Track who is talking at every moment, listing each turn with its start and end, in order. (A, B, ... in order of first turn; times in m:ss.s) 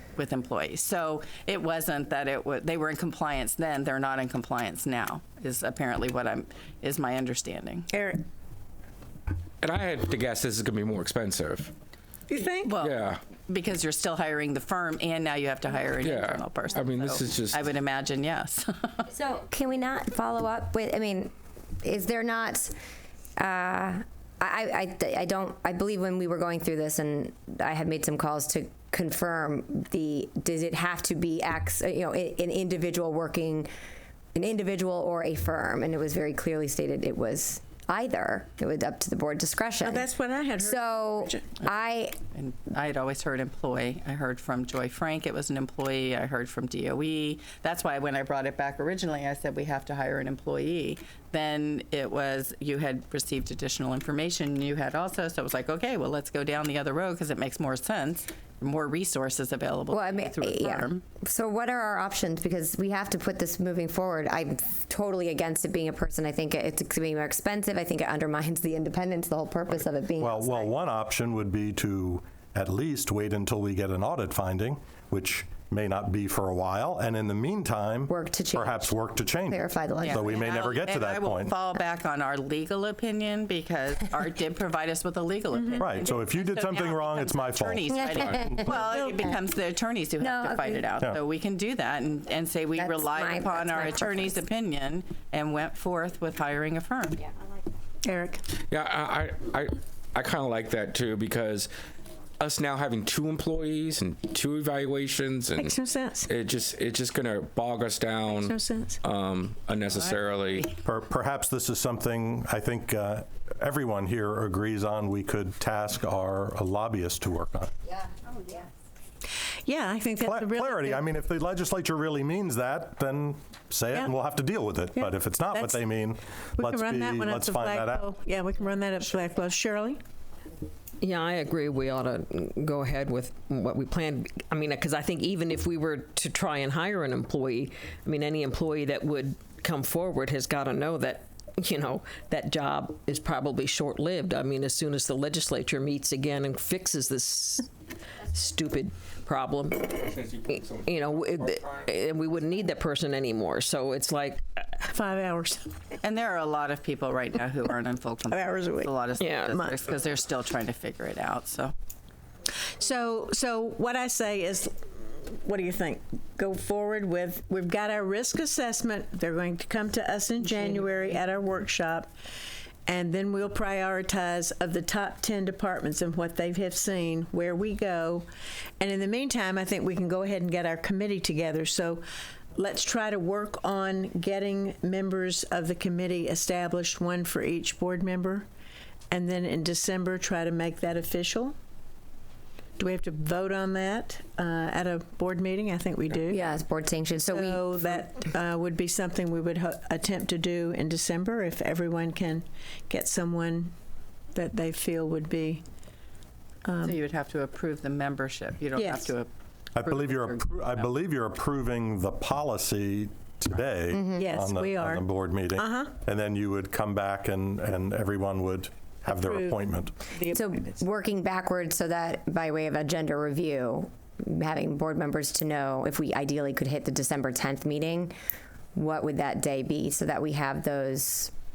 0:00.2-0:07.9 A
0:07.9-0:08.2 B
0:09.6-0:11.7 C
0:12.3-0:12.8 B
0:12.6-0:19.1 A
0:12.8-0:13.2 C
0:16.1-0:17.6 C
0:19.1-0:22.7 D
0:23.4-0:33.7 D
0:34.3-0:40.1 D
0:39.8-0:41.4 B
0:40.6-0:42.2 D
0:42.3-1:01.0 A
0:59.9-1:10.7 D
1:10.2-1:21.5 E
1:18.1-1:20.2 D
1:20.0-1:37.3 A
1:25.5-1:25.8 B
1:25.8-1:28.7 E
1:27.9-1:28.7 D
1:28.7-1:29.3 B
1:30.2-1:30.8 D
1:32.8-1:34.4 D
1:38.0-1:38.4 B
1:38.6-1:41.7 C
1:42.4-1:45.7 C
1:45.6-1:46.3 B
1:46.3-1:50.7 C
1:48.2-1:49.0 B
1:49.8-1:50.7 A
1:50.8-1:57.7 E
1:59.6-2:01.0 B
2:00.2-2:08.1 E
2:05.0-2:05.8 B
2:06.6-2:10.0 B
2:11.0-2:27.7 F
2:28.2-2:30.2 F
2:30.1-2:31.7 C
2:30.8-2:34.9 F
2:34.9-2:35.7 B
2:36.0-2:41.7 A
2:38.3-2:39.8 B
2:39.2-2:39.6 F
2:42.8-2:52.1 B
2:50.4-2:51.2 A
2:52.9-2:58.2 B
2:58.8-3:02.0 B
3:02.6-3:08.5 B
3:09.1-3:11.5 B
3:12.8-3:16.4 B
3:16.3-3:18.0 D
3:17.2-3:23.7 B
3:24.3-3:25.6 B
3:26.6-3:27.0 B
3:26.8-3:30.9 A
3:28.8-3:29.1 B
3:29.7-3:40.0 E
3:33.9-3:34.3 D
3:34.2-3:35.9 B
3:39.1-3:40.8 B
3:40.3-3:48.1 D
3:48.7-3:51.3 D